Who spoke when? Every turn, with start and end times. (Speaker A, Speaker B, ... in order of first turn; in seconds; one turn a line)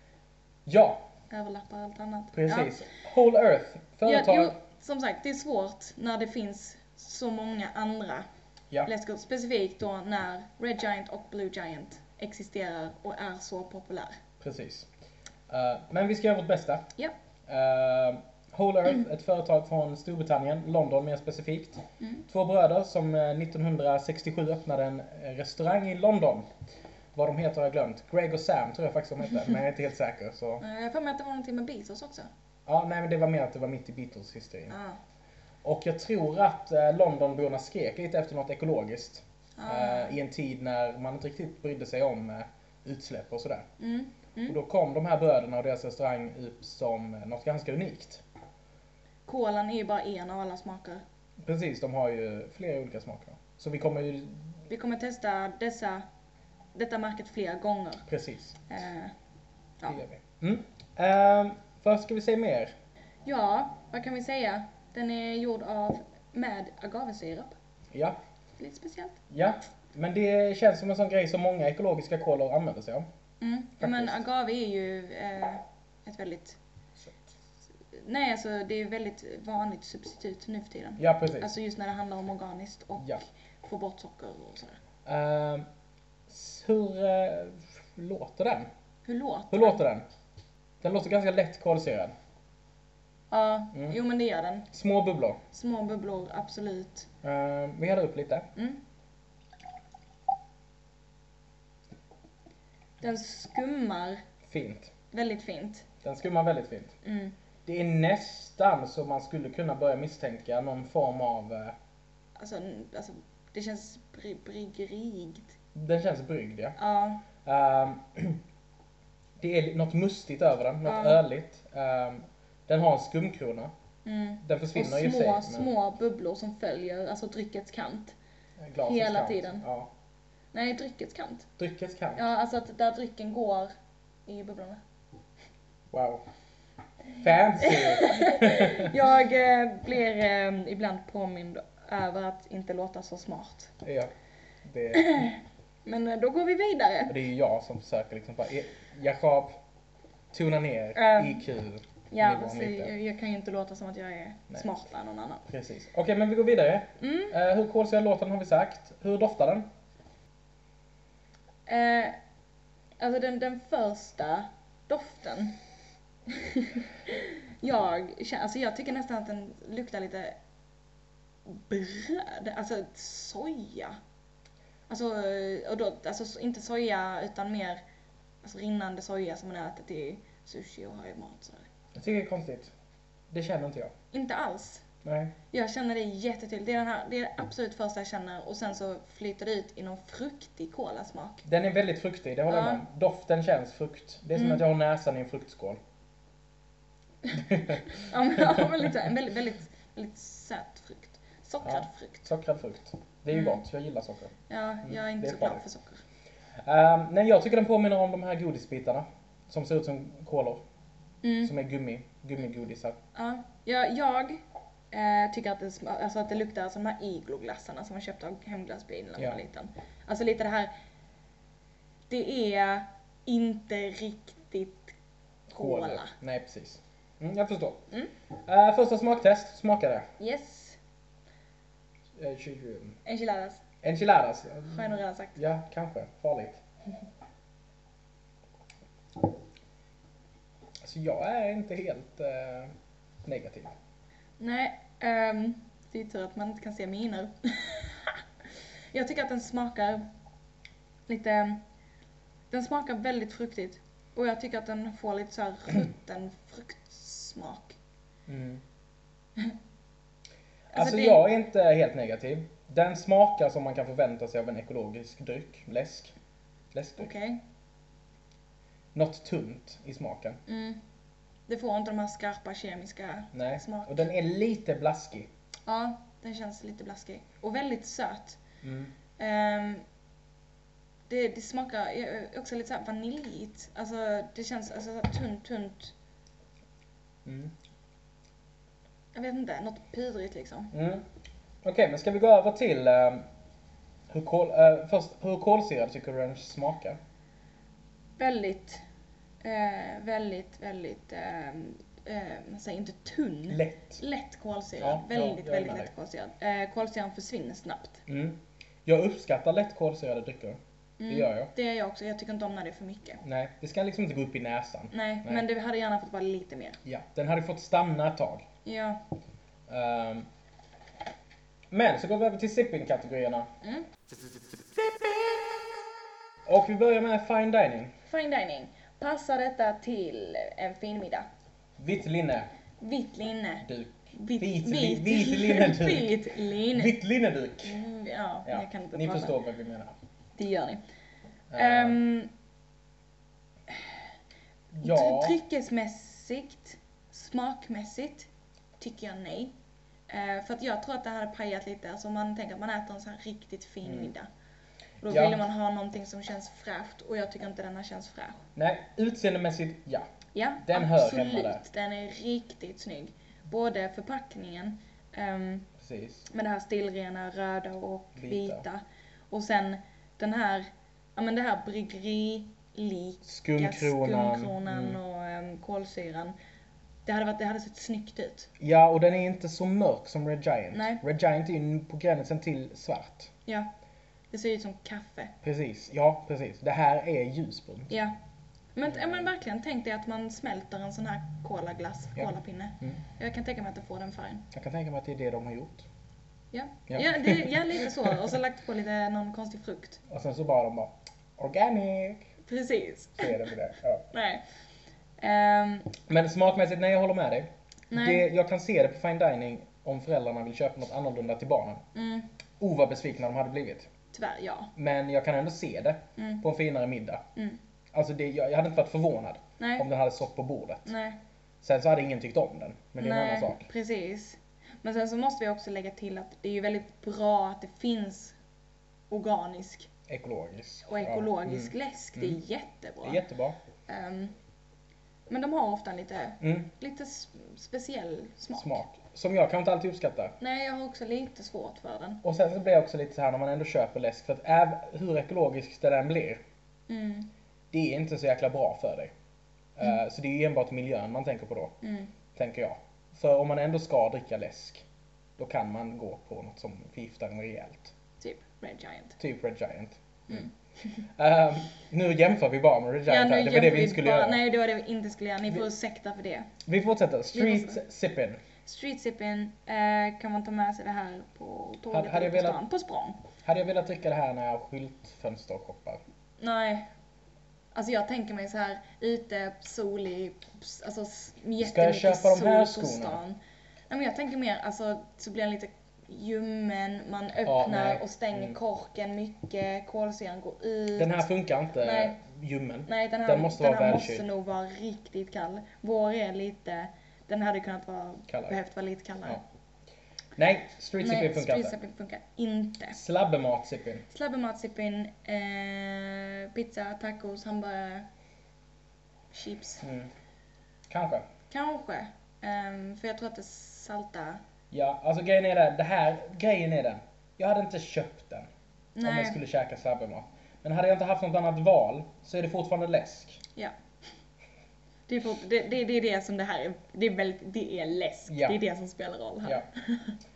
Speaker A: 0.7-1.1
Speaker B: 1.3-2.9
Speaker A: 2.3-4.6
Speaker B: 4.0-8.3
Speaker B: 8.8-14.2
Speaker A: 14.4-14.9
Speaker A: 15.5-16.9
Speaker A: 17.5-26.5
Speaker A: 27.1-30.6
Speaker B: 30.6-32.3
Speaker A: 32.7-34.8
Speaker B: 34.7-35.0
Speaker A: 35.6-43.6
Speaker B: 39.6-40.2
Speaker B: 43.8-44.6
Speaker A: 44.5-48.2
Speaker B: 49.3-51.0
Speaker A: 51.5-54.5
Speaker B: 54.7-56.0
Speaker B: 56.8-58.1
Speaker A: 58.1-58.7
Speaker B: 58.7-59.1
Speaker A: 59.9-62.7
Speaker B: 63.2-67.5
Speaker B: 68.6-69.2
Speaker A: 69.3-73.1
Speaker B: 73.4-76.6
Speaker A: 73.8-74.2
Speaker A: 77.0-77.3
Speaker B: 77.9-84.8
Speaker A: 81.0-81.5
Speaker A: 85.0-85.7
Speaker A: 86.3-88.7
Speaker B: 89.1-89.8
Speaker A: 89.5-90.0
Speaker A: 90.8-92.1
Speaker B: 93.3-94.7
Speaker A: 93.7-94.0
Speaker A: 94.7-95.4
Speaker B: 95.5-97.1
Speaker A: 97.2-98.5
Speaker B: 98.6-98.8
Speaker B: 103.0-104.2
Speaker A: 104.5-104.9
Speaker B: 105.1-105.9
Speaker A: 106.0-106.9
Speaker B: 107.0-107.3
Speaker A: 107.7-111.8
Speaker B: 112.4-115.5
Speaker A: 115.8-116.8
Speaker B: 116.8-117.2
Speaker A: 117.4-118.4
Speaker A: 119.4-123.7
Speaker B: 120.8-121.2
Speaker B: 124.0-128.2
Speaker A: 124.4-125.7
Speaker A: 128.6-129.9
Speaker B: 128.8-129.6
Speaker B: 130.5-131.5
Speaker A: 131.6-132.3
Speaker B: 132.2-133.7
Speaker B: 134.3-134.8
Speaker A: 135.9-136.2
Speaker A: 137.1-138.9
Speaker B: 137.6-143.7
Speaker A: 143.8-144.1
Speaker A: 144.6-145.3
Speaker B: 144.9-147.2
Speaker A: 147.1-149.6
Speaker A: 150.3-152.9
Speaker B: 150.9-151.4
Speaker B: 152.1-155.4
Speaker A: 155.5-159.7
Speaker B: 157.0-157.3
Speaker B: 161.7-162.2
Speaker B: 163.0-165.6
Speaker B: 166.3-170.4
Speaker B: 171.5-174.0
Speaker B: 174.9-177.8
Speaker B: 178.4-181.7
Speaker A: 181.9-182.7
Speaker A: 183.3-183.9
Speaker B: 184.1-184.8
Speaker A: 185.0-185.4
Speaker B: 185.5-191.4
Speaker A: 191.4-195.8
Speaker B: 192.5-192.8
Speaker B: 194.4-194.6
Speaker B: 197.3-202.2
Speaker A: 197.4-197.8
Speaker A: 198.4-198.7
Speaker A: 201.6-204.3
Speaker B: 203.3-203.6
Speaker B: 204.5-206.0
Speaker A: 204.8-205.7
Speaker A: 206.7-210.6
Speaker B: 211.2-211.5
Speaker A: 211.4-213.0
Speaker B: 213.2-220.7
Speaker B: 222.1-224.9
Speaker B: 225.5-226.1
Speaker A: 225.5-227.8
Speaker A: 228.5-230.1
Speaker B: 230.2-230.8
Speaker A: 232.2-233.0
Speaker B: 233.1-233.6
Speaker A: 233.8-236.6
Speaker B: 234.7-235.4
Speaker A: 240.8-242.7
Speaker A: 243.2-243.7
Speaker B: 244.4-250.1
Speaker B: 251.1-251.6
Speaker B: 252.5-257.8
Speaker A: 258.3-258.6
Speaker B: 260.7-261.3
Speaker A: 260.7-266.1
Speaker A: 266.7-267.1
Speaker B: 267.0-267.4
Speaker A: 268.9-270.4
Speaker B: 270.5-270.8
Speaker B: 271.5-274.1
Speaker A: 273.3-275.3
Speaker B: 275.7-278.4
Speaker A: 278.6-278.9
Speaker B: 279.2-279.8
Speaker B: 281.1-285.9
Speaker A: 287.2-287.5
Speaker B: 289.1-290.7
Speaker A: 290.7-291.1
Speaker A: 291.6-293.3
Speaker A: 294.1-297.0
Speaker B: 298.2-298.8
Speaker B: 299.4-308.0
Speaker A: 303.5-304.0
Speaker A: 304.8-305.9
Speaker A: 308.1-311.5
Speaker B: 311.0-313.2
Speaker A: 313.2-315.4
Speaker B: 314.9-316.8
Speaker A: 316.9-318.5
Speaker B: 318.6-319.0
Speaker A: 319.7-320.3
Speaker A: 321.7-323.5
Speaker B: 323.6-323.9
Speaker A: 326.5-327.9
Speaker B: 328.1-331.3
Speaker A: 331.8-332.5
Speaker B: 332.8-337.0
Speaker A: 333.6-337.8
Speaker B: 337.6-339.4
Speaker A: 338.5-339.9
Speaker B: 340.4-340.8
Speaker A: 341.5-342.0
Speaker B: 341.6-342.3
Speaker B: 343.7-344.0
Speaker A: 344.7-345.4
Speaker B: 344.8-349.6
Speaker B: 350.1-354.3
Speaker A: 353.8-354.1
Speaker B: 355.0-358.4
Speaker A: 355.1-355.5
Speaker A: 358.6-360.1
Speaker B: 360.3-365.7
Speaker A: 360.6-361.6
Speaker A: 365.8-366.3
Speaker B: 366.3-376.4
Speaker A: 368.1-368.6
Speaker A: 373.2-375.0
Speaker B: 377.1-378.5
Speaker A: 378.6-383.3
Speaker B: 380.7-381.0
Speaker B: 384.3-385.3
Speaker A: 385.4-387.9
Speaker B: 388.8-394.5
Speaker A: 388.9-389.3
Speaker A: 392.2-393.0
Speaker A: 394.5-395.9
Speaker B: 396.5-400.0
Speaker A: 396.9-398.1
Speaker A: 400.1-402.3
Speaker B: 402.5-403.5
Speaker A: 403.2-404.1
Speaker B: 404.1-404.4
Speaker B: 405.2-406.0
Speaker A: 406.1-411.8
Speaker B: 407.9-408.2
Speaker B: 411.9-412.3
Speaker A: 412.6-413.9
Speaker B: 414.1-414.7
Speaker A: 414.8-417.2
Speaker B: 416.2-416.4
Speaker A: 417.9-420.9
Speaker B: 419.6-419.8
Speaker B: 420.9-421.2
Speaker A: 421.6-423.6
Speaker B: 423.0-428.4
Speaker B: 429.1-429.9
Speaker A: 430.1-432.4
Speaker B: 430.9-433.2
Speaker A: 433.0-433.6
Speaker B: 433.9-434.3
Speaker B: 435.3-438.8
Speaker A: 436.4-436.7
Speaker A: 438.6-440.4
Speaker B: 440.4-442.2
Speaker A: 442.2-446.4
Speaker B: 446.9-447.3
Speaker A: 447.7-449.1
Speaker A: 449.8-451.8
Speaker B: 451.8-452.1
Speaker A: 452.3-454.9
Speaker A: 455.4-457.9
Speaker B: 458.2-459.2
Speaker A: 459.2-460.5
Speaker A: 461.2-464.4
Speaker B: 463.1-466.5
Speaker A: 466.6-468.4
Speaker B: 467.3-467.8
Speaker B: 468.6-473.2
Speaker A: 471.9-472.6
Speaker A: 473.4-476.0
Speaker B: 476.4-476.9
Speaker B: 477.7-483.4
Speaker A: 481.6-483.2
Speaker B: 483.9-491.3
Speaker A: 487.5-488.6
Speaker A: 491.0-494.3
Speaker B: 491.8-492.2
Speaker B: 492.9-499.4
Speaker A: 498.3-498.6
Speaker A: 500.4-501.8
Speaker B: 501.0-503.0
Speaker A: 502.9-504.1
Speaker B: 504.1-508.1
Speaker B: 509.3-509.8
Speaker A: 509.8-510.1
Speaker A: 510.9-511.3
Speaker B: 511.5-514.4
Speaker A: 514.7-518.5
Speaker B: 519.0-519.4
Speaker A: 519.0-523.4
Speaker B: 525.1-530.2
Speaker A: 528.3-528.6